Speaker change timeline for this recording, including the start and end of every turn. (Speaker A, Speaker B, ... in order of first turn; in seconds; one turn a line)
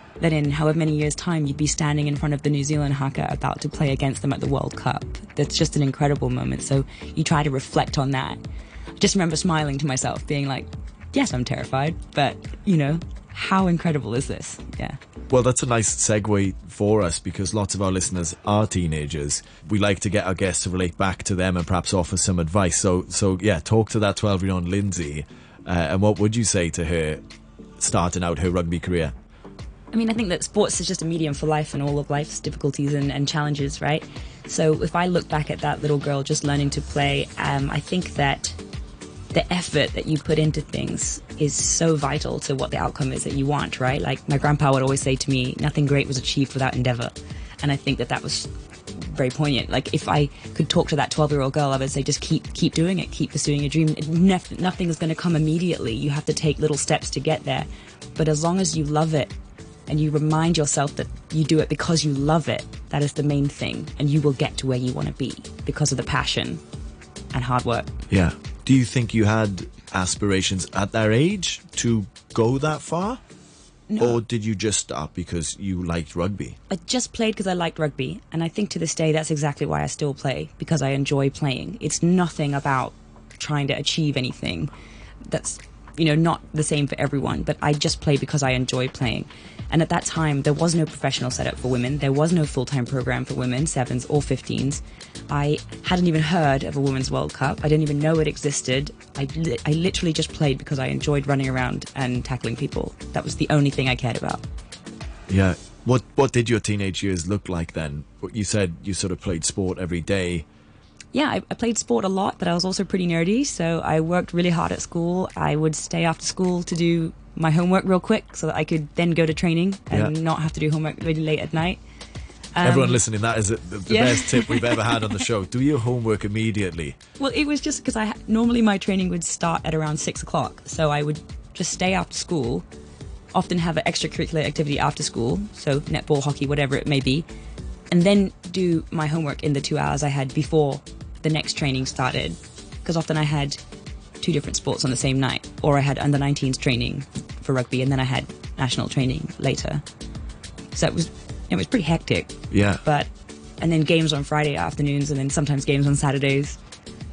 Speaker A: 0.2-8.4
Speaker A: 9.0-15.0
Speaker B: 15.3-27.2
Speaker B: 27.8-29.1
Speaker A: 29.9-38.6
Speaker A: 39.3-59.3
Speaker A: 59.9-66.6
Speaker A: 67.3-67.9
Speaker B: 68.1-73.1
Speaker A: 73.9-74.2
Speaker B: 74.0-76.5
Speaker A: 76.7-84.7
Speaker A: 85.2-104.4
Speaker B: 105.3-110.4
Speaker A: 111.1-121.8
Speaker A: 122.5-123.0
Speaker B: 122.6-127.0
Speaker A: 123.9-125.0
Speaker A: 127.2-132.6
Speaker A: 133.3-137.2
Speaker A: 137.9-143.6
Speaker A: 144.2-149.8
Speaker A: 150.7-156.6
Speaker B: 152.5-152.8